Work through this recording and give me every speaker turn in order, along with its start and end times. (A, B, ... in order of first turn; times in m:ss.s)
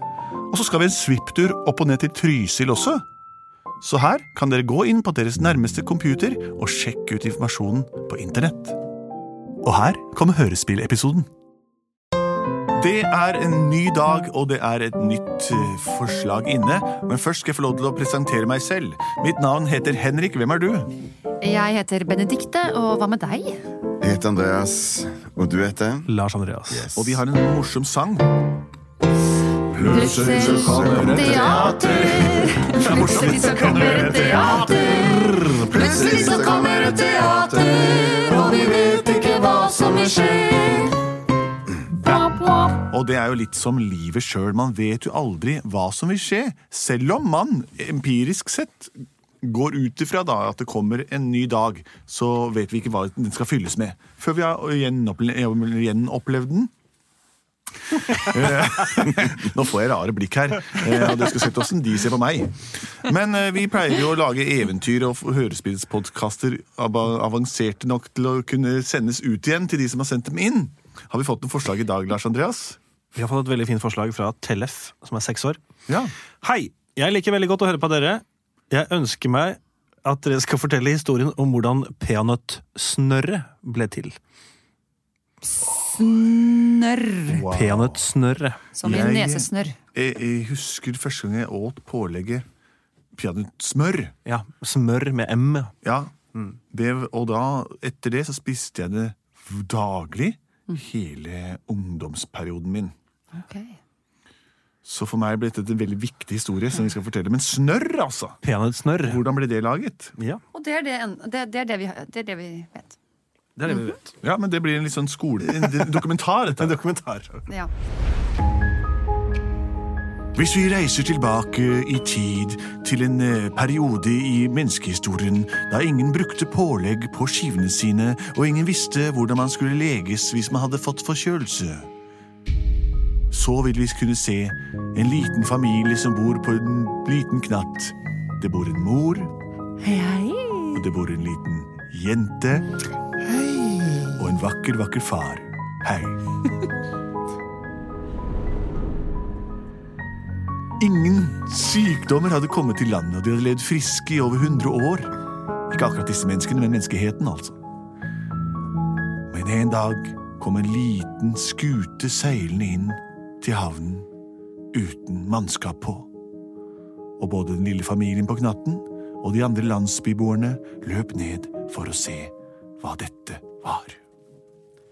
0:00.5-0:03.0 A
0:03.8-0:08.8 A
0:09.6-0:11.3 A
0:12.8-0:20.9 A
0:21.4-0:23.6 B
0:24.0-0:26.1 C
0:26.1-0:26.9 D
0:26.7-0:27.2 C
0:27.0-0:28.3 A
0:29.7-0:36.7 A
0:29.8-0:41.0 B
0:35.5-0:35.8 D
0:35.7-0:36.8 C
0:41.9-0:42.8 B
0:42.1-0:56.7 A
0:57.9-1:12.8 A
1:13.2-1:15.6 D
1:15.9-1:16.1 A
1:16.4-1:24.2 D
1:25.7-1:27.4 B
1:27.3-1:28.1 A
1:27.5-1:29.1 D
1:28.8-1:29.8 B
1:28.8-1:32.4 A
1:33.2-1:34.2 A
1:34.2-1:35.7 D
1:35.8-1:36.2 A
1:36.7-1:42.9 A
1:43.3-1:43.8 B
1:44.8-1:48.4 A
1:48.4-1:49.2 D
1:49.0-1:50.2 A
1:50.5-1:53.0 B
1:53.6-1:54.1 D
1:54.2-1:56.8 A
1:55.6-1:56.1 D
1:56.6-1:57.4 D
2:00.4-2:11.9 A
2:13.3-2:19.3 A
2:19.8-2:20.8 B
2:20.7-2:22.7 A
2:23.2-2:24.4 C
2:24.2-2:26.2 A
2:30.8-2:35.1 A
2:35.7-2:37.6 A
2:39.3-2:44.1 A
2:44.7-2:46.1 A
2:47.2-2:54.0 A